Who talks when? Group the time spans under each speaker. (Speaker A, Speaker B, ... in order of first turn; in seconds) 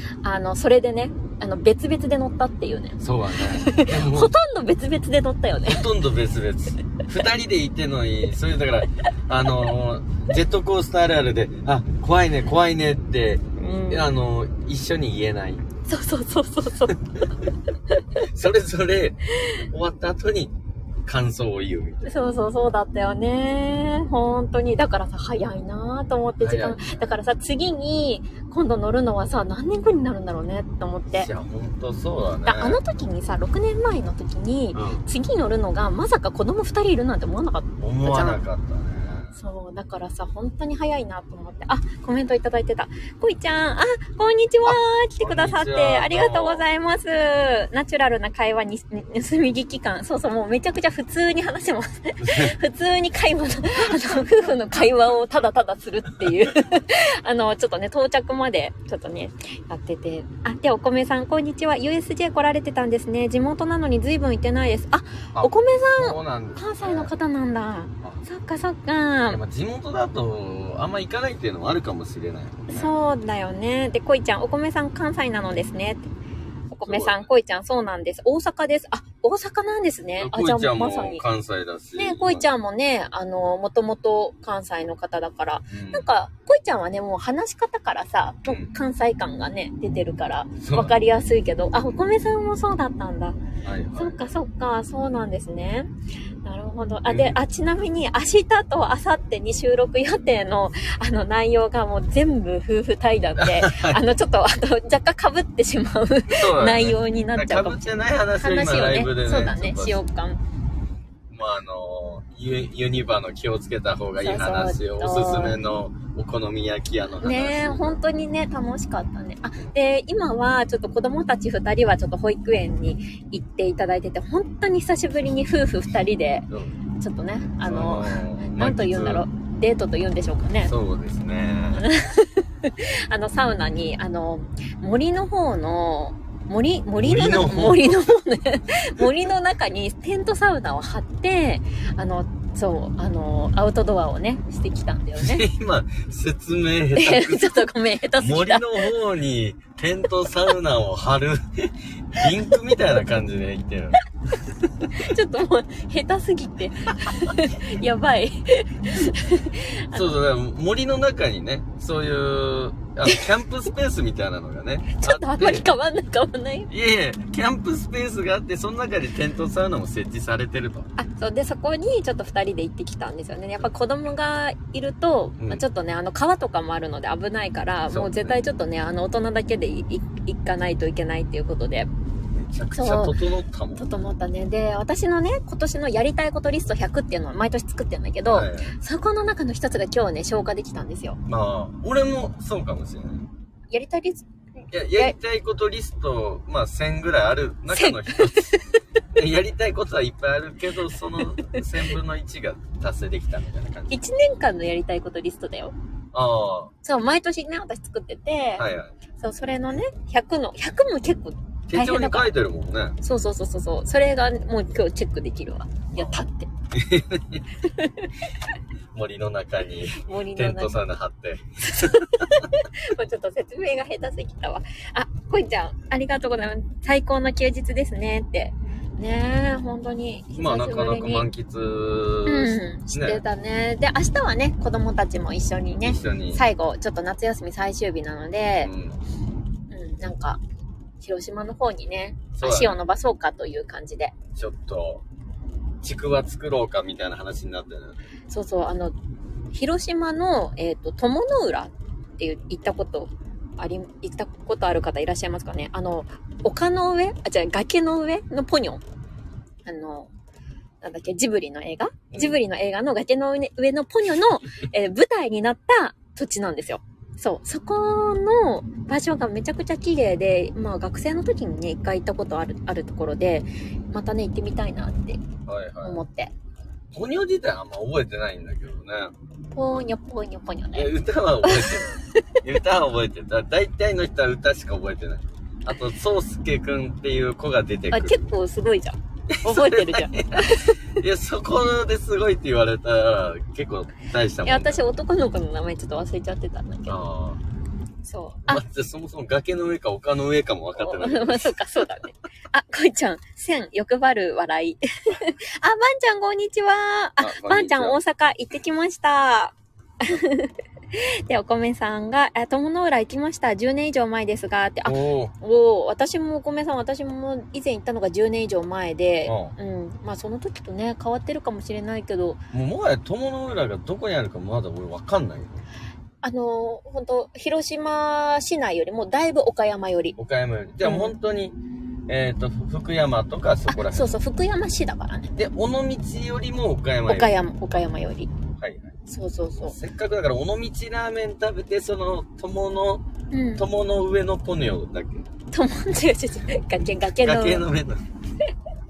Speaker A: 0.2-5.8, 13.6-14.1, 15.9-17.3, 22.1-31.3, 32.4-38.4, 39.3-69.4, 72.7-76.0, 76.7-81.2, 82.0-93.4, 94.0-95.9, 96.4-110.4, 114.2-115.6, 117.2-126.5, 127.0-130.7, 131.8-145.4, 146.9-148.9, 154.9-160.1, 164.9-166.7, 171.0-181.9, 182.7-183.2, 183.8-191.2, 193.7-195.2, 197.7-198.8, 203.9-205.7, 206.8-212.3, 213.0-216.5, 217.6-218.1, 220.0-220.8, 221.7-231.3, 232.2-238.7, 239.7-240.4, 241.0-244.1, 248.3-248.9, 249.5-258.8, 259.6-260.1, 260.8-275.2, 275.8-276.3, 279.5-280.9, 281.4-282.4, 287.9-291.0, 294.4-297.0, 298.0-298.6, 300.8-322.4, 326.2-330.1, 330.8-331.1, 333.7-335.3, 337.1-338.3, 339.1-339.8, 343.3-343.6, 345.5-347.6
Speaker B: 3.0-4.3, 5.7-15.6, 16.9-17.2, 18.1-20.5, 21.0-22.1, 26.4-27.1, 31.1-32.8, 34.7-35.0, 37.8-39.3, 44.6-46.6, 52.2-52.5, 65.3-67.1, 69.3-72.9, 76.8-77.3, 80.2-82.5, 85.7-86.1, 88.5-88.7, 90.6-90.9, 93.6-94.3, 97.1-97.4, 103.4-104.0, 106.3-110.0, 111.3-118.0, 126.5-126.8, 127.6-129.2, 130.6-131.9, 137.0-138.1, 145.2-147.6, 148.2-154.9, 157.0-157.3, 159.9-165.6, 166.7-170.9, 177.9-178.4, 182.3-183.9, 188.3-188.7, 191.2-193.2, 194.7-198.5, 199.1-204.1, 206.1-206.7, 208.6-208.9, 211.7-213.0, 215.9-217.4, 218.9-222.5, 230.3-233.2, 235.8-236.4, 238.6-239.0, 242.3-242.8, 244.3-245.0, 245.8-248.0, 262.1-262.4, 275.4-276.0, 276.9-279.1, 280.7-288.2, 289.3-294.8, 296.9-297.4, 298.5-301.6, 307.2-308.0, 314.8-315.3, 319.2-319.5, 322.5-325.6, 330.1-334.1, 335.4-337.3, 338.6-338.9, 339.6-343.0, 343.6-345.3, 347.2-348.0